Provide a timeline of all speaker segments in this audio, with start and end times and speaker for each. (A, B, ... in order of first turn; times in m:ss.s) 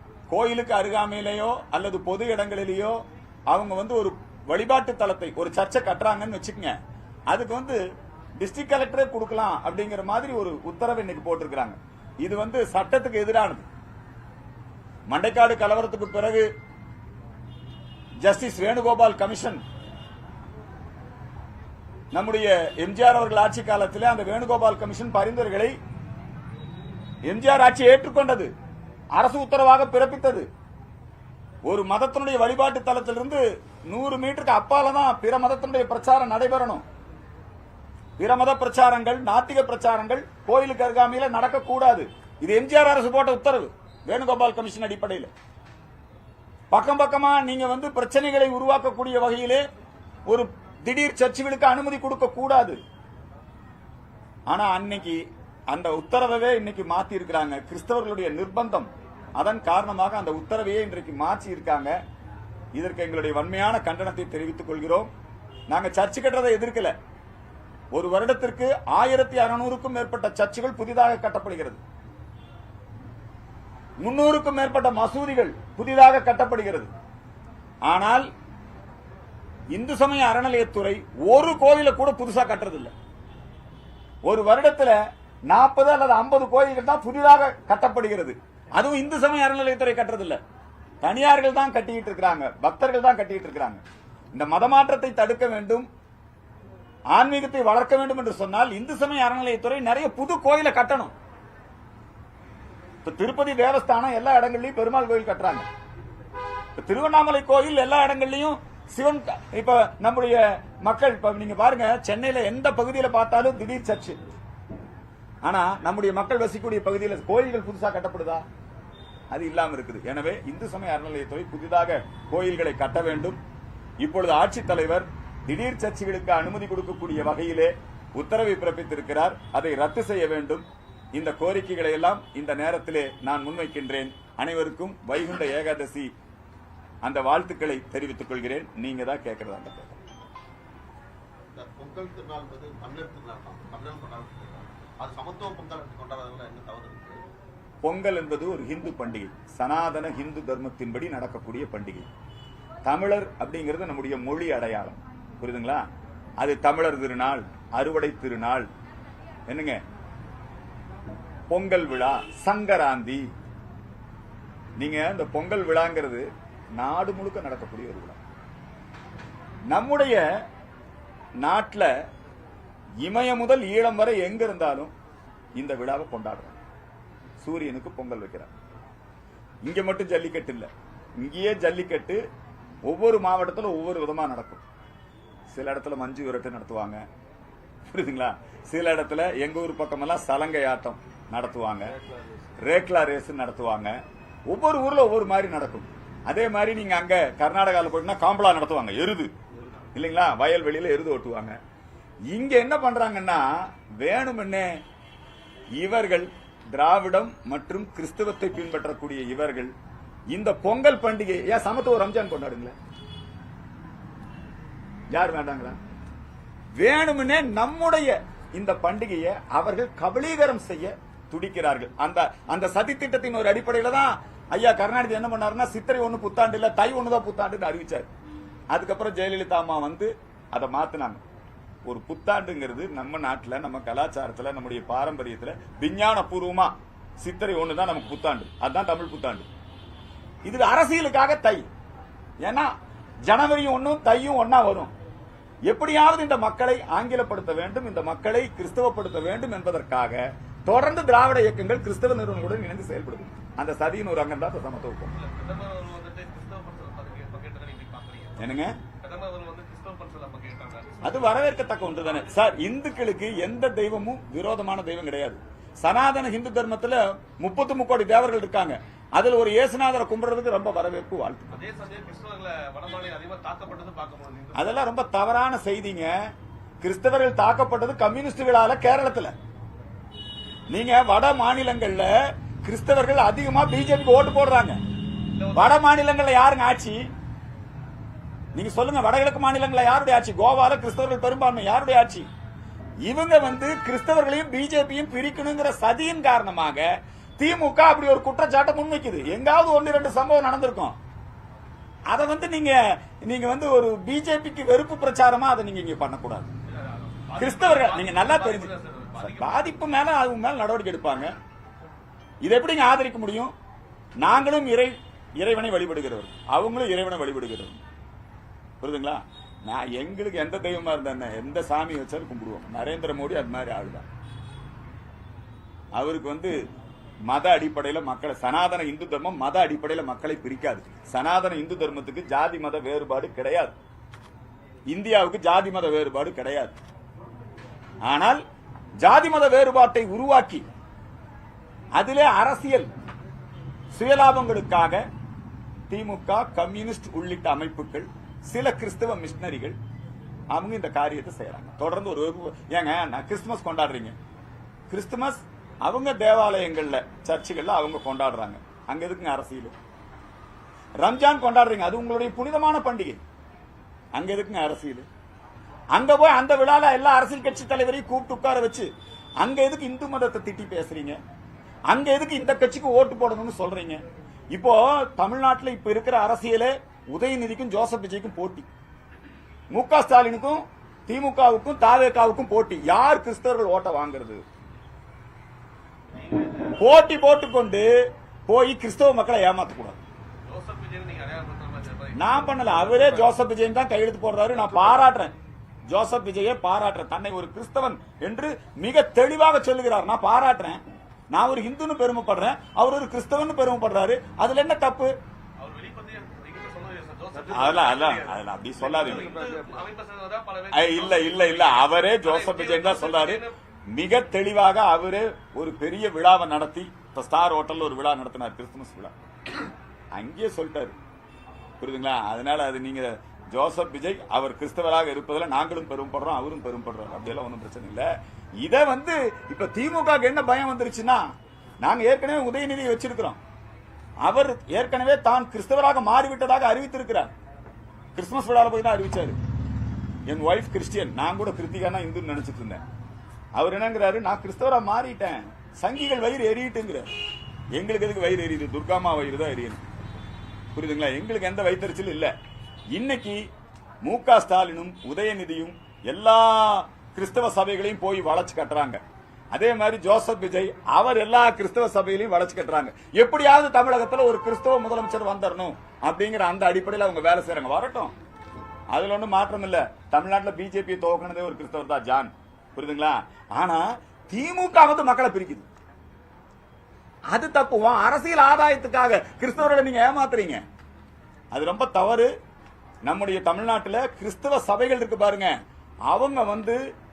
0:00.3-0:06.8 A
0:07.3-0:07.8 A
0:08.4-0:13.7 A
0:15.1-0:16.5 A
0:18.2-0:19.6 A
0:22.1-0:25.7 A
0:27.3-0:28.5 A
0:29.2-0:30.5 A
0:31.7-0:36.8 A
0:38.2-0:45.3 A
0:46.7-0:49.6 A
0:50.3-0:52.8 A
0:54.5-1:02.0 A
1:02.8-1:05.1 A
1:05.7-1:06.9 A
1:07.9-1:11.8 A
1:14.0-1:16.9 A
1:17.9-1:18.3 A
1:19.7-1:22.9 A
1:24.3-1:30.4 A
1:31.0-1:33.8 A
1:34.4-1:35.9 A
1:37.1-1:41.1 A
1:43.0-1:45.7 A
1:46.8-1:54.2 A
1:55.4-1:58.4 A
1:59.3-2:03.4 A
2:04.0-2:16.1 A
2:17.0-2:20.0 A
2:21.6-2:27.2 B
2:27.8-2:32.1 A
2:32.9-2:35.9 A
2:36.4-2:38.7 A
2:39.5-2:39.8 A
2:41.5-2:43.3 A
2:44.8-2:48.2 A
2:49.7-2:50.3 A
2:51.4-2:51.9 A
2:53.0-2:54.9 A
2:55.6-2:56.6 A
2:57.4-2:58.5 A
2:59.7-3:02.2 A
3:02.8-3:04.6 A
3:05.5-3:07.0 A
3:07.9-3:12.0 A
3:12.6-3:19.3 A
3:19.9-3:21.6 A
3:22.3-3:24.7 A
3:25.8-3:29.7 A
3:30.3-3:32.7 A
3:35.1-3:35.8 A
3:36.8-3:48.1 A
3:48.7-3:51.2 A
3:51.9-3:59.5 A
4:00.5-4:01.7 A
4:02.4-4:02.7 A
4:03.3-4:04.9 A
4:05.7-4:15.2 A
4:15.2-4:18.3 C
4:18.4-4:18.8 A
4:19.0-4:22.5 C
4:21.0-4:31.6 A
4:31.6-4:34.7 C
4:34.6-4:36.1 A
4:36.8-4:39.3 A
4:40.7-4:44.8 A
4:45.4-4:45.8 C
4:45.5-4:47.1 A
4:48.6-4:52.3 A
4:53.1-5:01.0 A
5:02.1-5:06.5 A
5:06.7-5:09.8 C
5:07.4-5:11.3 A
5:12.4-5:13.5 A
5:14.2-5:17.8 A
5:18.8-5:24.1 A
5:26.0-5:26.5 A
5:27.3-5:33.8 A
5:34.9-5:36.8 A
5:38.0-5:38.4 A
5:39.0-5:40.7 A
5:42.0-5:42.9 A
5:43.9-5:45.0 A
5:45.9-5:49.8 A
5:50.5-5:54.2 A
5:54.9-5:59.7 A
6:01.0-6:03.2 A
6:04.2-6:05.1 A
6:05.9-6:08.9 A
6:09.4-6:11.2 A
6:11.9-6:14.0 A
6:14.5-6:18.7 A
6:19.7-6:24.4 A
6:26.2-6:26.8 C
6:26.8-6:27.9 A
6:28.5-6:30.0 A
6:30.5-6:33.4 C
6:32.2-6:35.3 A
6:35.9-6:45.1 A
6:45.6-6:53.6 C
6:47.5-6:49.3 A
6:50.7-6:59.1 A
7:00.1-7:01.0 A
7:01.8-7:13.4 A
7:14.2-7:17.3 A
7:18.2-7:19.4 A
7:20.3-7:22.8 A
7:23.6-7:27.1 A
7:27.8-7:29.8 A
7:30.7-7:32.3 A
7:32.9-7:33.4 A
7:34.0-7:39.0 A
7:39.5-7:48.1 A
7:48.9-7:55.7 A
7:57.3-8:00.6 A
8:01.5-8:02.3 A
8:03.1-8:05.5 A
8:06.1-8:06.8 A